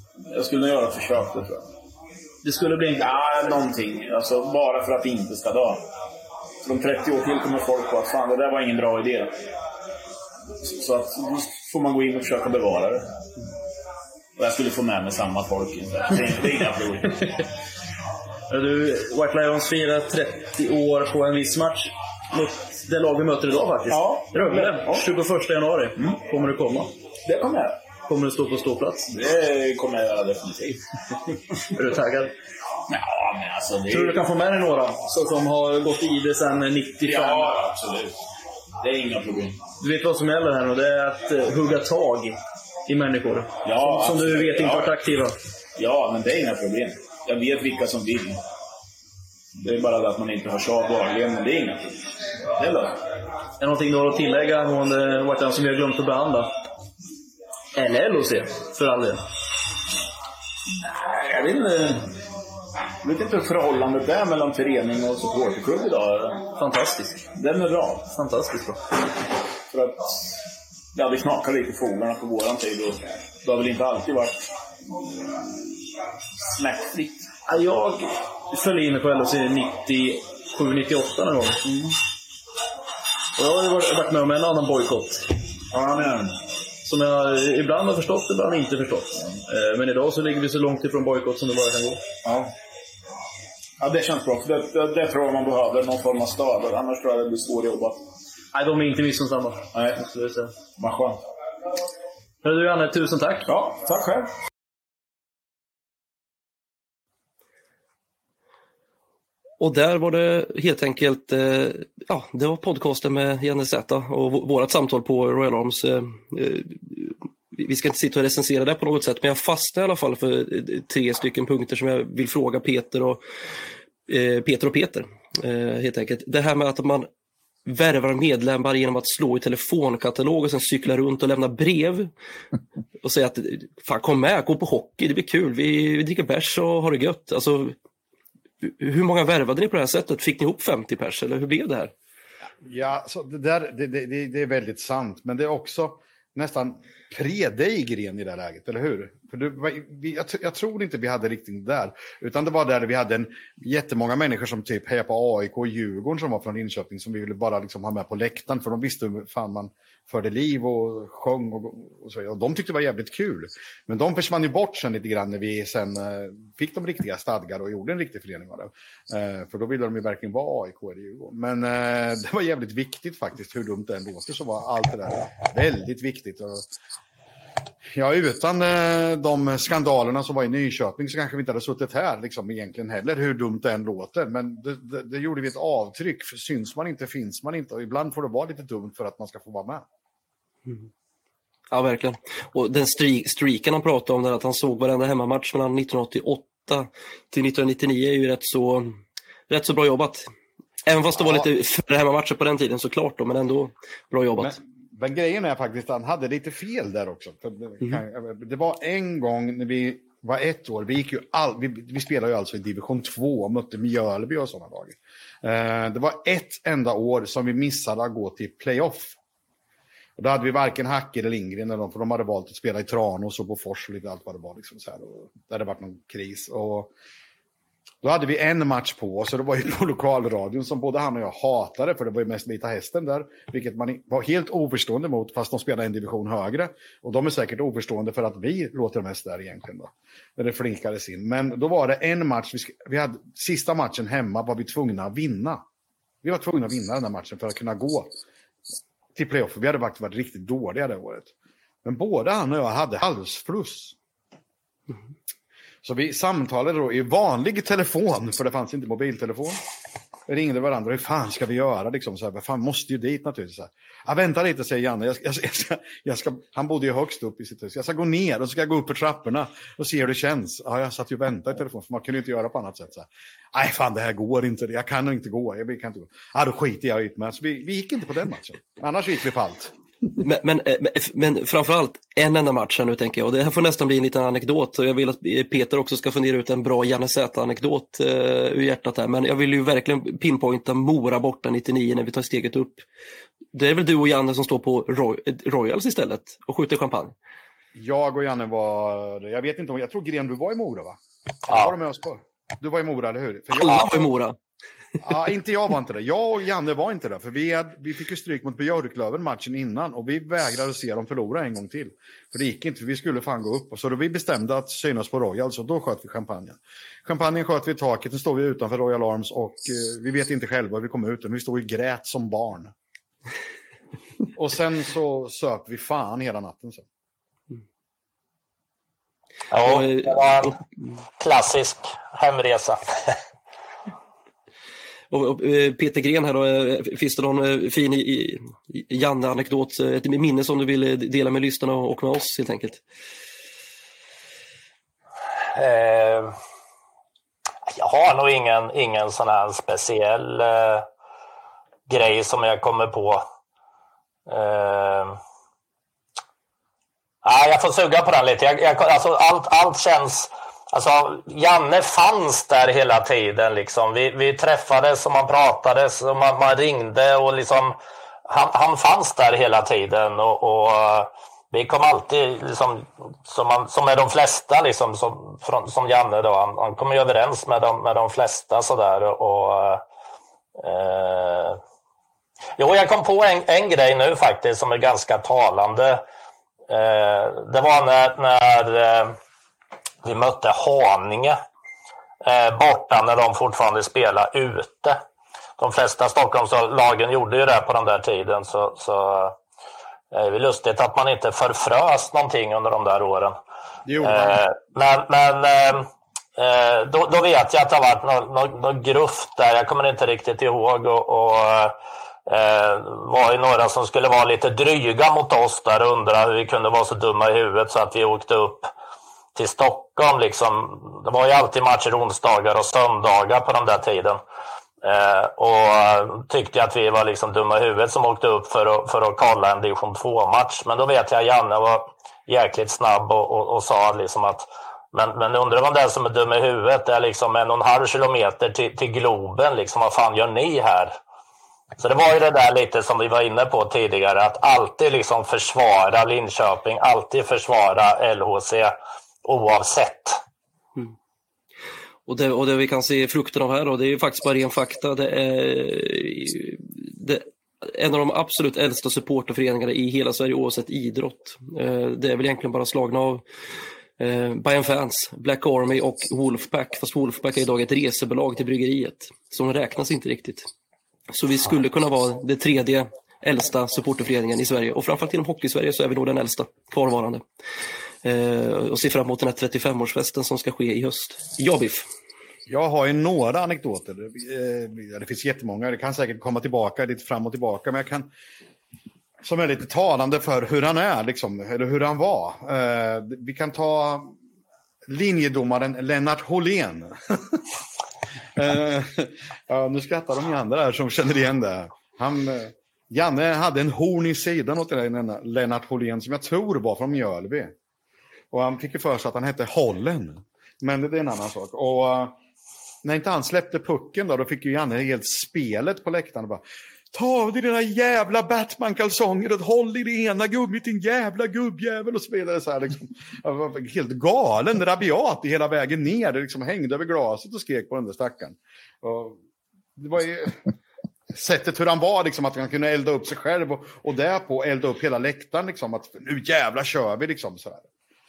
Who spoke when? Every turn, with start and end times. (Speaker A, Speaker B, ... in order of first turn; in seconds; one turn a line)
Speaker A: 0.3-1.6
Speaker B: 2.4-3.1
Speaker A: 2.9-5.8
Speaker A: 6.6-9.3
Speaker A: 10.6-13.1
Speaker A: 14.4-17.2
Speaker B: 18.5-26.9
Speaker A: 23.9-25.1
Speaker A: 27.2-27.8
Speaker B: 28.1-29.1
Speaker A: 29.1-30.8
Speaker B: 31.7-32.3
Speaker A: 32.9-34.2
Speaker B: 33.9-37.5
Speaker A: 37.0-38.1
Speaker A: 38.8-39.6
Speaker B: 39.8-45.3
Speaker A: 43.6-45.0
Speaker A: 45.8-48.4
Speaker A: 49.6-53.0
Speaker B: 53.6-56.5
Speaker B: 57.7-59.2
Speaker A: 60.8-62.1
Speaker A: 63.0-66.4
Speaker B: 66.6-67.2
Speaker A: 67.3-68.0
Speaker B: 68.1-68.8
Speaker A: 69.7-70.3
Speaker A: 70.9-74.4
Speaker A: 75.1-75.7
Speaker A: 76.5-77.3
Speaker B: 77.5-81.6
Speaker A: 81.6-81.9
Speaker B: 83.4-85.2
Speaker A: 85.7-86.3
Speaker B: 86.8-92.0
Speaker A: 93.8-98.0
Speaker B: 98.5-100.5
Speaker A: 99.7-100.0
Speaker A: 100.8-101.2
Speaker B: 102.4-103.5
Speaker A: 103.5-104.3
Speaker C: 109.6-123.2
Speaker C: 124.1-127.1
Speaker C: 127.7-132.1
Speaker C: 133.0-137.7
Speaker C: 138.6-141.9
Speaker D: 142.6-176.6
Speaker D: 177.9-189.8
Speaker C: 191.7-198.9
Speaker C: 199.5-200.3
Speaker C: 200.8-204.6
Speaker D: 204.4-219.2
Speaker D: 220.2-226.9
Speaker D: 228.0-245.6
Speaker D: 246.2-248.1
Speaker D: 249.1-251.3
Speaker D: 251.8-253.9
Speaker D: 255.8-259.6
Speaker D: 260.3-279.7
Speaker C: 280.2-292.8
Speaker C: 293.5-297.1
Speaker D: 297.7-304.1
Speaker E: 301.5-301.7
Speaker C: 303.6-304.4
Speaker D: 305.0-322.7
Speaker D: 324.3-326.8
Speaker E: 329.5-330.6
Speaker C: 329.6-330.6
Speaker E: 331.2-333.1
Speaker C: 335.1-342.8
Speaker E: 345.5-346.3
Speaker E: 347.6-350.9
Speaker E: 351.9-353.2
Speaker E: 354.3-355.2
Speaker E: 357.2-367.8
Speaker E: 368.3-379.8
Speaker E: 380.6-381.6
Speaker E: 382.6-386.0
Speaker E: 386.7-389.2
Speaker E: 390.0-391.4
Speaker E: 392.2-395.0
Speaker E: 395.6-399.4
Speaker E: 400.1-403.4
Speaker D: 403.9-404.4
Speaker E: 404.0-418.7
Speaker E: 419.4-424.2
Speaker E: 424.8-440.9
Speaker E: 441.8-450.2
Speaker C: 452.1-463.2
Speaker C: 464.0-470.5
Speaker C: 471.1-477.2
Speaker C: 478.0-481.9
Speaker D: 482.5-488.1
Speaker D: 489.2-494.1
Speaker D: 494.9-497.4
Speaker D: 498.3-507.5
Speaker D: 508.3-512.2
Speaker D: 512.8-529.2
Speaker D: 529.8-530.5
Speaker D: 531.1-537.7